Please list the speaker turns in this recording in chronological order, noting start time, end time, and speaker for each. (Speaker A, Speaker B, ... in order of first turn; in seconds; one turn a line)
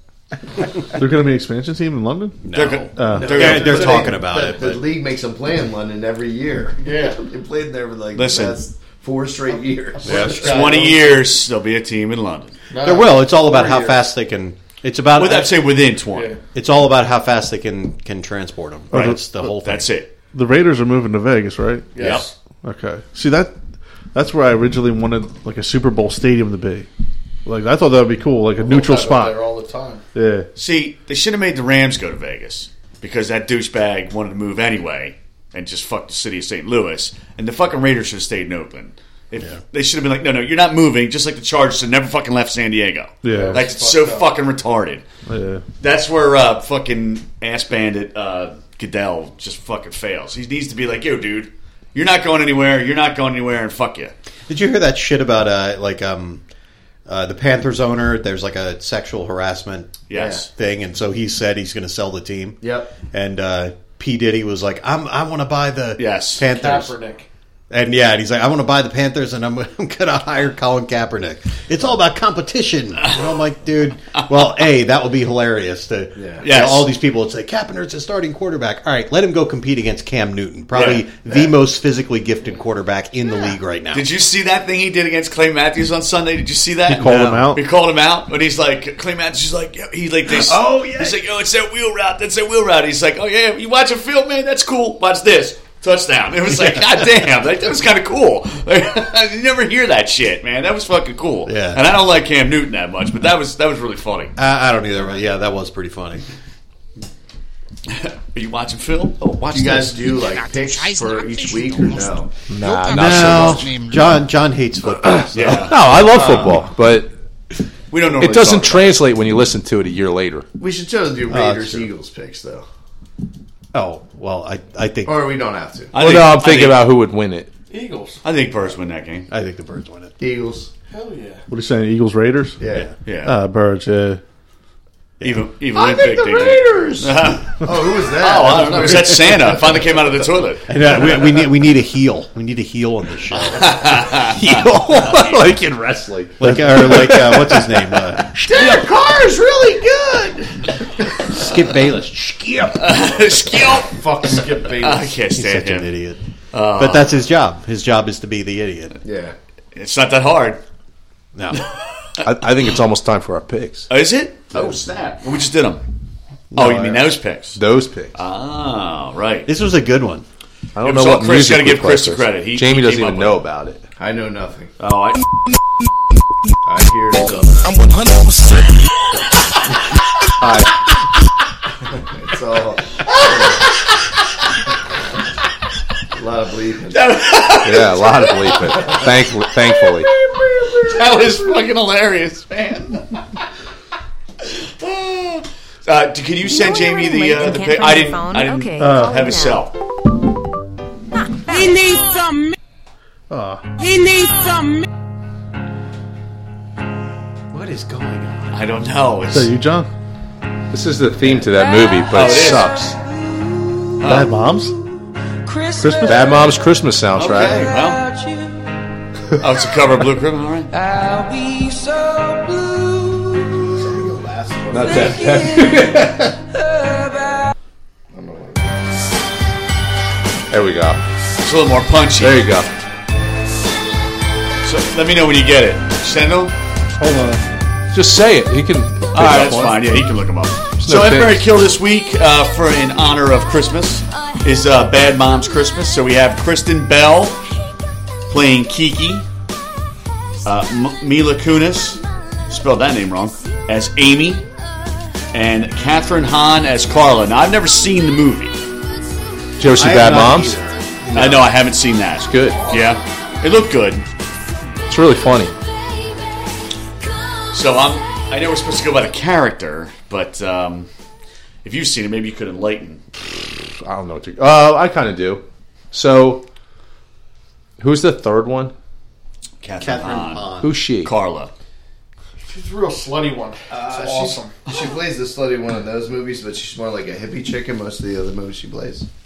Speaker A: 0.9-3.5
Speaker B: 2.4-4.9
Speaker C: 2.5-4.2
Speaker D: 3.1-10.8
Speaker E: 6.8-7.2
Speaker C: 8.1-8.6
Speaker E: 9.9-11.3
Speaker B: 10.0-10.5
Speaker C: 10.1-12.6
Speaker E: 12.7-14.0
Speaker B: 12.8-15.8
Speaker C: 15.1-16.3
Speaker E: 16.1-16.4
Speaker B: 16.5-19.9
Speaker A: 18.9-19.6
Speaker C: 18.9-20.1
Speaker A: 20.3-23.5
Speaker E: 21.9-22.4
Speaker C: 22.0-22.2
Speaker A: 24.1-26.9
Speaker A: 27.4-29.4
Speaker E: 28.6-30.0
Speaker A: 30.1-30.5
Speaker C: 30.5-45.0
Speaker A: 43.2-43.6
Speaker E: 43.2-44.3
Speaker A: 45.3-45.6
Speaker C: 45.8-54.1
Speaker B: 54.5-56.4
Speaker B: 57.0-60.0
Speaker C: 60.1-60.5
Speaker D: 60.1-60.5
Speaker B: 60.5-66.9
Speaker D: 62.6-62.9
Speaker C: 66.0-66.4
Speaker E: 66.4-67.2
Speaker B: 67.7-84.1
Speaker D: 76.2-76.5
Speaker C: 76.4-76.9
Speaker C: 80.7-81.1
Speaker C: 83.9-104.3
Speaker A: 86.9-87.6
Speaker B: 90.4-90.8
Speaker D: 90.6-91.1
Speaker B: 101.4-101.8
Speaker B: 104.3-106.2
Speaker C: 107.9-109.4
Speaker D: 109.5-112.3
Speaker F: 112.5-113.7
Speaker B: 112.9-116.0
Speaker F: 115.2-117.1
Speaker C: 115.3-115.8
Speaker D: 116.0-116.6
Speaker C: 117.9-119.0
Speaker F: 118.2-120.5
Speaker D: 120.6-122.6
Speaker B: 121.3-121.9
Speaker B: 123.7-125.2
Speaker D: 125.0-125.9
Speaker C: 125.9-126.9
Speaker F: 125.9-127.5
Speaker E: 127.7-128.2
Speaker C: 128.2-129.3
Speaker B: 129.3-130.1
Speaker D: 130.2-130.7
Speaker E: 130.9-131.4
Speaker A: 131.5-132.6
Speaker D: 132.6-132.9
Speaker C: 133.0-133.4
Speaker A: 133.2-134.2
Speaker B: 135.2-135.5
Speaker C: 135.2-137.6
Speaker D: 135.7-139.5
Speaker C: 138.2-140.7
Speaker B: 140.7-143.8
Speaker C: 143.5-145.3
Speaker F: 144.2-147.8
Speaker B: 146.4-148.4
Speaker D: 148.4-150.8
Speaker B: 151.3-152.8
Speaker C: 152.8-155.9
Speaker E: 153.8-155.2
Speaker B: 155.3-159.0
Speaker C: 156.5-157.1
Speaker D: 159.0-159.3
Speaker C: 159.7-160.6
Speaker B: 161.3-161.6
Speaker F: 162.2-163.9
Speaker C: 163.9-165.8
Speaker B: 166.5-167.2
Speaker C: 166.5-167.6
Speaker F: 167.6-168.1
Speaker C: 168.1-169.5
Speaker B: 169.4-170.2
Speaker F: 170.8-173.8
Speaker C: 170.8-173.4
Speaker D: 174.0-174.7
Speaker C: 174.8-175.2
Speaker D: 176.6-177.7
Speaker F: 180.4-180.8
Speaker D: 182.0-183.6
Speaker D: 186.1-187.0
Speaker C: 186.9-189.1
Speaker F: 187.6-190.1
Speaker D: 190.7-190.9
Speaker C: 190.9-193.0
Speaker E: 190.9-192.3
Speaker C: 194.5-199.7
Speaker G: 196.5-199.6
Speaker A: 198.8-199.2
Speaker G: 201.1-202.6
Speaker A: 203.3-203.6
Speaker G: 203.8-204.9
Speaker B: 207.5-208.8
Speaker C: 208.5-209.6
Speaker A: 209.3-209.9
Speaker F: 210.7-212.9
Speaker G: 211.5-216.7
Speaker C: 212.1-212.6
Speaker C: 214.0-214.4
Speaker A: 214.1-214.7
Speaker A: 215.8-216.3
Speaker F: 215.9-217.6
Speaker C: 217.1-218.0
Speaker G: 217.2-218.7
Speaker C: 219.4-220.7
Speaker G: 220.7-223.9
Speaker D: 223.8-225.4
Speaker F: 224.7-226.3
Speaker G: 224.7-227.5
Speaker D: 228.1-228.8
Speaker F: 230.5-231.0
Speaker C: 231.4-232.4
Speaker F: 232.2-232.7
Speaker C: 234.6-236.5
Speaker A: 237.0-237.4
Speaker F: 237.9-240.1
Speaker C: 239.1-247.4
Speaker F: 240.8-241.4
Speaker C: 248.3-249.2
Speaker C: 250.4-254.4
Speaker C: 255.3-258.6
Speaker F: 259.6-260.6
Speaker B: 259.7-261.6
Speaker C: 261.1-264.0
Speaker F: 262.2-262.7
Speaker F: 264.9-265.5
Speaker C: 267.5-270.9
Speaker C: 271.6-273.0
Speaker F: 273.7-276.4
Speaker F: 277.8-278.7
Speaker C: 279.6-281.5
Speaker B: 279.8-280.7
Speaker F: 280.6-281.1
Speaker E: 282.5-284.5
Speaker D: 283.7-289.1